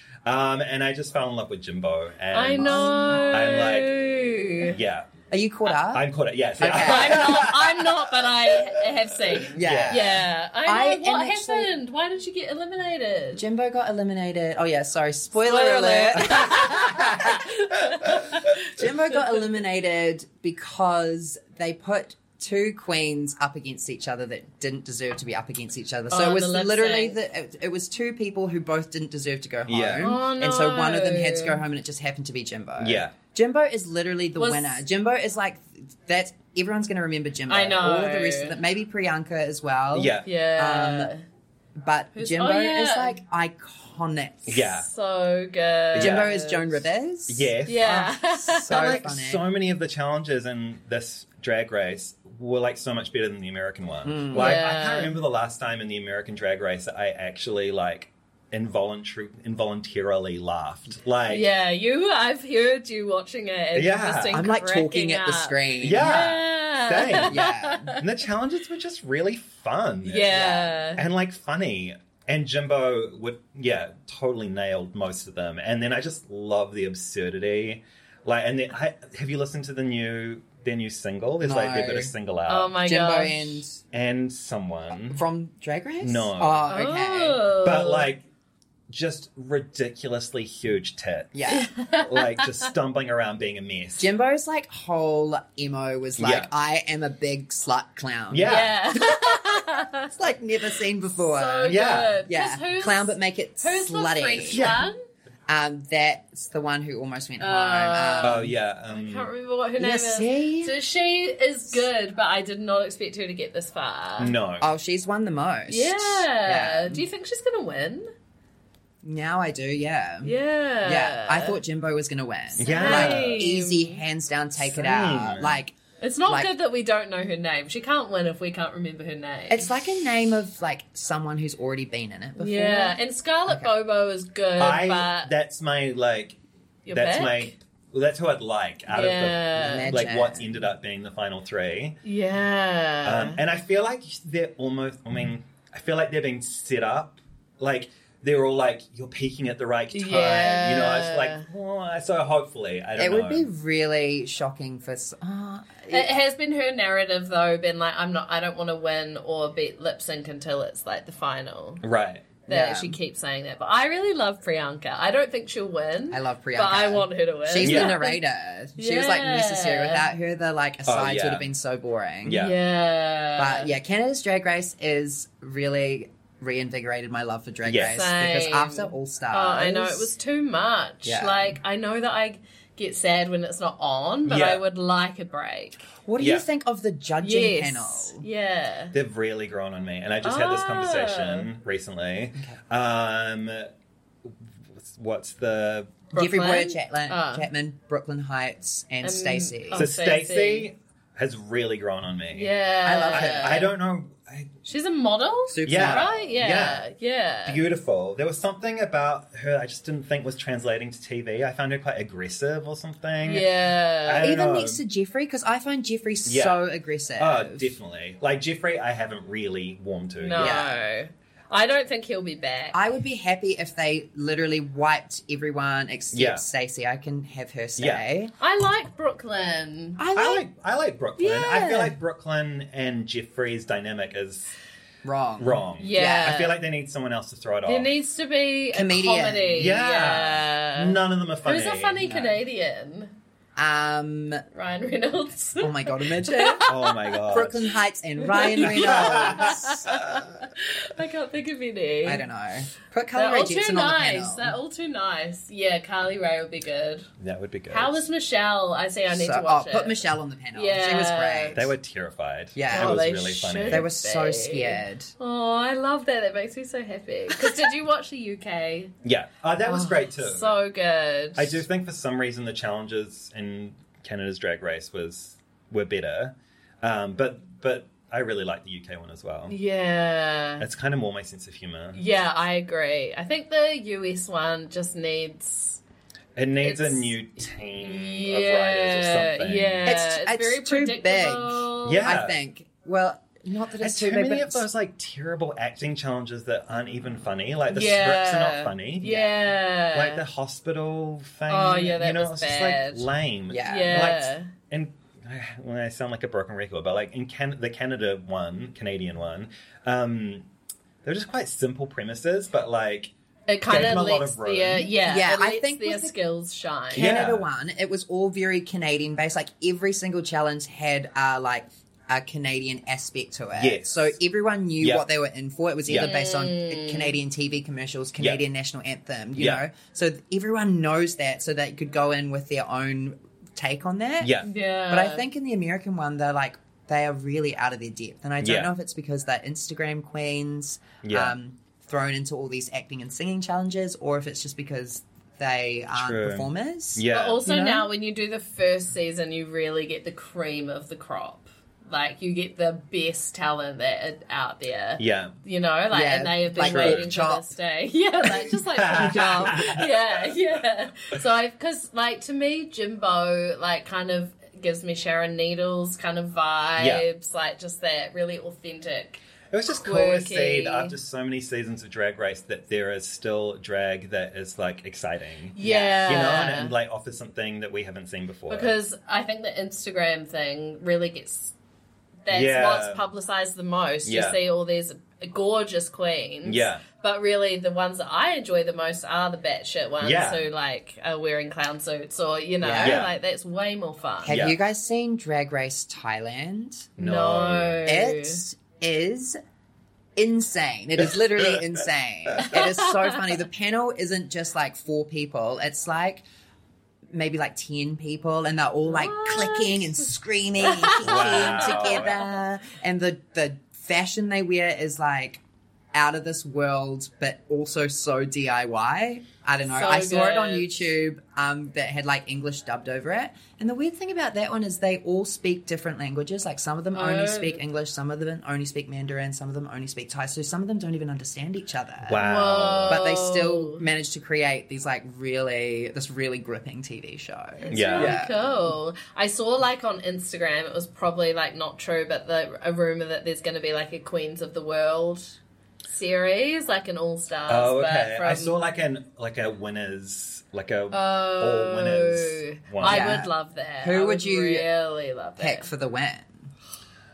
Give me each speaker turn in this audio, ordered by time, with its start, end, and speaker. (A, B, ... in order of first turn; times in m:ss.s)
0:00.2-0:04.0 A
0:02.3-0:04.8 B
0:02.6-0:03.4 C
0:04.7-0:05.1 A
0:05.3-0:06.1 C
0:05.9-0:08.7 A
0:06.6-0:07.5 C
0:06.6-0:13.4 B
0:09.4-0:10.2 A
0:09.6-0:11.7 C
0:13.4-0:17.4 C
0:15.4-0:19.2 B
0:18.7-0:41.1 C
0:26.1-0:27.2 B
0:29.7-0:30.2 A
0:30.0-0:31.6 B
0:32.8-0:33.2 A
0:34.4-0:34.8 B
0:37.5-0:38.6 B
0:39.9-0:40.3 A
0:40.2-0:41.2 B
0:41.8-0:44.6 C
0:42.2-0:43.2 B
0:44.5-0:44.9 A
0:44.5-0:46.8 B
0:45.9-0:46.3 A
0:46.0-0:49.4 C
0:47.3-0:48.1 A
0:47.7-0:49.0 B
0:48.6-1:01.5 A
0:54.0-0:54.6 C
0:54.3-0:55.2 B
1:01.3-1:08.0 B
1:03.8-1:04.5 A
1:04.3-1:06.2 C
1:05.8-1:22.8 A
1:07.2-1:07.9 C
1:10.0-1:11.0 B
1:10.3-1:10.7 C
1:21.4-1:22.1 C
1:22.5-1:23.6 B
1:22.8-1:23.8 C
1:23.9-1:25.2 A
1:24.9-1:27.4 C
1:26.0-1:26.6 A
1:26.7-1:28.1 B
1:27.6-1:28.2 A
1:28.9-1:34.1 A
1:31.3-1:31.7 C
1:31.5-1:32.7 B
1:34.0-1:38.6 C
1:36.2-1:36.5 A
1:38.3-1:38.8 A
1:38.4-1:40.1 B
1:40.1-1:44.8 C
1:41.2-1:45.0 B
1:41.7-1:42.2 A
1:44.5-1:44.9 A
1:45.5-1:48.5 C
1:47.4-1:54.3 B
1:48.2-1:49.3 A
1:49.8-1:50.8 C
1:54.2-1:54.7 A
1:54.6-1:57.0 C
1:55.7-1:58.1 B
1:59.0-2:05.8 C
2:00.2-2:01.6 B
2:02.6-2:03.4 A
2:02.6-2:04.0 B
2:04.6-2:05.6 A
2:06.0-2:09.7 B
2:06.3-2:06.5 C
2:09.5-2:13.0 C
2:12.4-2:15.3 B
2:14.6-2:16.4 A
2:16.9-2:17.6 B
2:16.9-2:22.0 A
2:18.9-2:20.0 B
2:19.6-2:20.5 C
2:22.0-2:23.4 B
2:23.0-2:33.5 A
2:29.9-2:31.5 B
2:33.0-2:36.1 C
2:35.9-2:41.8 B
2:41.8-2:42.3 A
2:42.5-2:48.2 B
2:42.5-2:43.0 C
2:46.1-2:52.4 C
2:47.6-2:48.0 A
2:48.8-2:50.0 B
2:50.9-2:51.5 A
2:52.2-2:52.6 A
2:52.4-2:53.7 B
2:53.4-3:00.1 C
2:57.6-2:58.0 A
2:57.9-3:05.8 B
3:01.0-3:01.6 C
3:04.3-3:04.6 A
3:06.0-3:08.2 C
3:06.2-3:06.4 A
3:07.2-3:08.9 B
3:08.9-3:13.7 A
3:10.2-3:11.5 B
3:14.8-3:16.0 A
3:16.1-3:17.5 B
3:16.1-3:19.9 C
3:19.0-3:20.7 B
3:19.7-3:22.5 A
3:22.3-3:23.7 B
3:22.8-3:23.6 C
3:23.1-3:24.5 A
3:24.6-3:27.6 B
3:25.5-3:26.2 C
3:25.6-3:26.8 A
3:27.5-3:33.5 A
3:33.2-3:34.3 B
3:34.0-3:34.8 A
3:34.2-3:37.8 C
3:36.2-3:36.6 A
3:37.2-3:40.6 A
3:40.2-3:42.8 B
3:40.4-3:40.8 C
3:42.7-3:48.3 C
3:46.1-3:46.4 A
3:47.8-3:48.0 A
3:48.4-3:50.0 B
3:50.0-3:50.5 C
3:50.1-3:54.5 A
3:51.2-3:52.0 C
3:55.0-3:56.4 C
3:55.4-3:57.9 A
3:55.8-3:56.6 B
3:57.7-4:03.1 B
3:58.7-3:59.7 C
3:59.6-4:02.2 A
4:02.0-4:02.3 C
4:03.6-4:04.4 C
4:04.5-4:07.2 B
4:05.6-4:06.7 C
4:06.6-4:07.7 A
4:07.3-4:09.8 C
4:08.2-4:12.2 B
4:08.6-4:10.2 A
4:12.0-4:14.6 C
4:13.1-4:17.1 B
4:17.2-4:18.1 A
4:17.7-4:20.0 B
4:19.1-4:21.8 C
4:20.5-4:21.6 B
4:21.5-4:23.9 A
4:22.6-4:23.0 C
4:22.7-4:28.9 B
4:23.7-4:25.1 C
4:29.0-4:30.5 A
4:29.6-4:31.6 B
4:31.4-4:39.6 A
4:39.5-4:40.7 B
4:40.6-4:42.0 A
4:42.0-4:45.8 B
4:46.4-4:49.9 A
4:46.6-4:47.1 B
4:47.8-4:52.1 B
4:49.8-4:54.7 C
4:51.8-4:52.4 A
4:53.8-4:59.3 A
4:57.7-5:00.2 B
4:59.0-4:59.3 C
4:59.9-5:10.5 A
5:01.5-5:03.1 B
5:03.5-5:04.0 C
5:03.6-5:04.5 B
5:11.0-5:13.1 A
5:13.5-5:17.1 B
5:13.6-5:14.9 A
5:14.9-5:16.2 C
5:16.9-5:47.9 C
5:16.9-5:17.5 A
5:23.6-5:24.1 A
5:25.9-5:26.1 A
5:25.9-5:27.2 B
5:29.4-5:29.6 A
5:34.2-5:34.5 A
5:34.4-5:35.2 B
5:38.4-5:38.7 A
5:41.0-5:41.4 A
5:45.9-5:47.4 A
5:47.1-6:11.0 B
5:55.0-5:55.4 A
5:55.9-5:57.5 C
5:56.6-5:57.1 A
5:58.8-6:00.0 A
5:59.0-5:59.8 C
6:06.8-6:07.0 A
6:09.5-6:18.7 A
6:15.6-6:16.8 B
6:15.6-6:16.0 C
6:18.5-6:21.5 B
6:22.2-6:34.4 B
6:22.3-6:23.0 A
6:24.0-6:24.4 A
6:26.4-6:26.8 A
6:30.0-6:30.4 A
6:32.6-6:33.1 C
6:32.8-6:33.1 A
6:34.2-6:36.9 C
6:34.3-6:34.6 A
6:37.0-6:37.8 A
6:37.0-6:38.4 B
6:37.8-6:39.4 C
6:40.2-6:46.2 C
6:42.4-6:43.2 B
6:47.1-6:55.4 C
6:48.9-6:50.1 B
6:50.6-6:52.1 B
6:51.0-6:52.2 A
6:55.9-7:12.3 C
6:59.7-7:00.9 B
7:06.9-7:07.6 B
7:12.1-7:13.1 A
7:12.2-7:13.8 B
7:12.8-7:18.4 C
7:17.6-7:25.4 B
7:17.7-7:18.2 A
7:25.9-7:28.6 B
7:27.5-7:33.2 A
7:30.9-7:35.7 B
7:32.8-7:34.7 C
7:35.4-7:36.5 C